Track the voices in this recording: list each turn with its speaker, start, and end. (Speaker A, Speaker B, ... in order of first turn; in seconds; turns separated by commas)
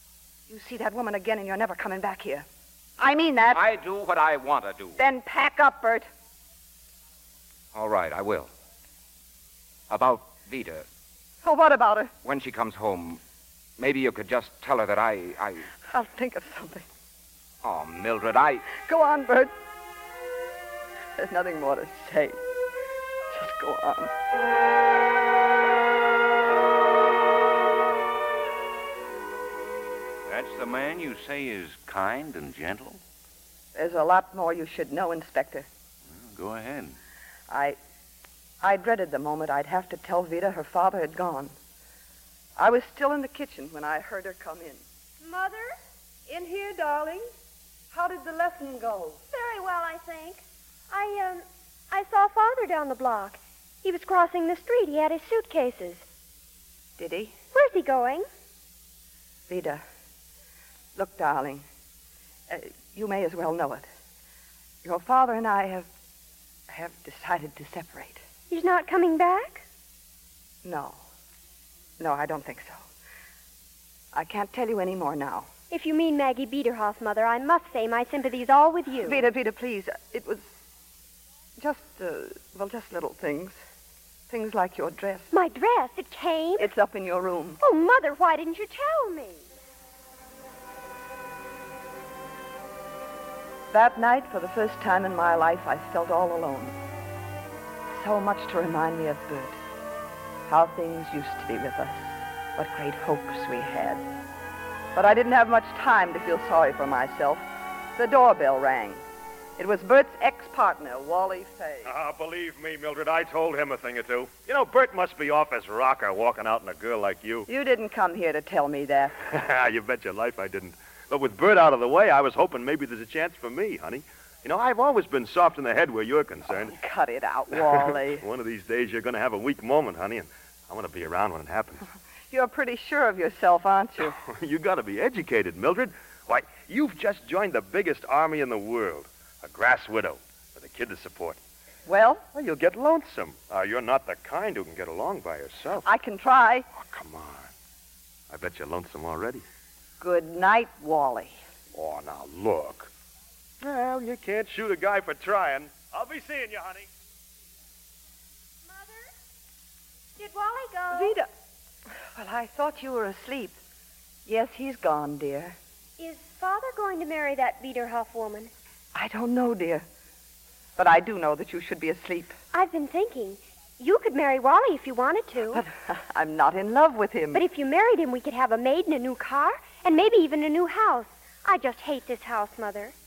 Speaker A: 0.5-2.5, Speaker A: 3.0-3.6, Speaker B: 3.5-5.0, Speaker A: 5.0-6.1, Speaker B: 7.7-8.5, Speaker B: 9.9-10.8, Speaker A: 11.4-12.1, Speaker B: 12.2-13.2, Speaker B: 13.8-15.7, Speaker A: 15.8-16.9, Speaker B: 17.6-18.6, Speaker A: 18.7-19.5, Speaker A: 21.2-22.4, Speaker A: 23.3-24.1, Speaker C: 30.2-33.0, Speaker A: 33.7-35.7, Speaker C: 36.1-37.0, Speaker A: 37.5-37.8, Speaker A: 38.6-41.5, Speaker A: 42.6-44.8, Speaker D: 45.2-45.8, Speaker A: 46.3-46.9, Speaker D: 46.4-47.2, Speaker A: 47.9-49.2, Speaker D: 49.3-56.0, Speaker A: 57.0-57.4, Speaker D: 57.5-58.2, Speaker A: 59.5-59.8, Speaker A: 61.0-61.6, Speaker A: 62.5-63.9, Speaker A: 64.8-65.9, Speaker A: 66.7-68.2, Speaker D: 68.5-69.6, Speaker A: 70.6-71.0, Speaker A: 72.0-72.8, Speaker A: 74.1-75.5, Speaker D: 75.7-79.2, Speaker A: 79.0-80.5, Speaker A: 81.6-83.6, Speaker A: 84.3-85.3, Speaker D: 85.3-86.7, Speaker A: 86.6-87.6, Speaker D: 87.6-89.5, Speaker A: 93.7-96.7, Speaker A: 97.9-99.6, Speaker A: 100.5-104.0, Speaker A: 104.9-107.4, Speaker A: 108.0-109.0, Speaker A: 109.6-111.9, Speaker E: 111.8-117.5, Speaker A: 117.5-119.2, Speaker E: 119.3-126.7, Speaker A: 126.5-128.2, Speaker E: 127.5-131.8, Speaker A: 132.3-134.1, Speaker E: 134.3-141.4, Speaker A: 141.9-142.2, Speaker E: 142.3-145.8, Speaker A: 145.8-146.7, Speaker E: 146.8-147.5, Speaker E: 148.3-149.4, Speaker A: 150.0-151.3, Speaker E: 151.7-152.9, Speaker E: 153.6-156.9, Speaker D: 158.6-159.1, Speaker D: 160.2-161.2, Speaker A: 160.9-161.3, Speaker A: 162.1-163.6, Speaker A: 164.2-165.6, Speaker D: 166.0-168.5, Speaker A: 168.9-169.8, Speaker A: 170.8-172.3, Speaker D: 172.5-175.6, Speaker A: 175.5-177.4, Speaker D: 177.3-182.9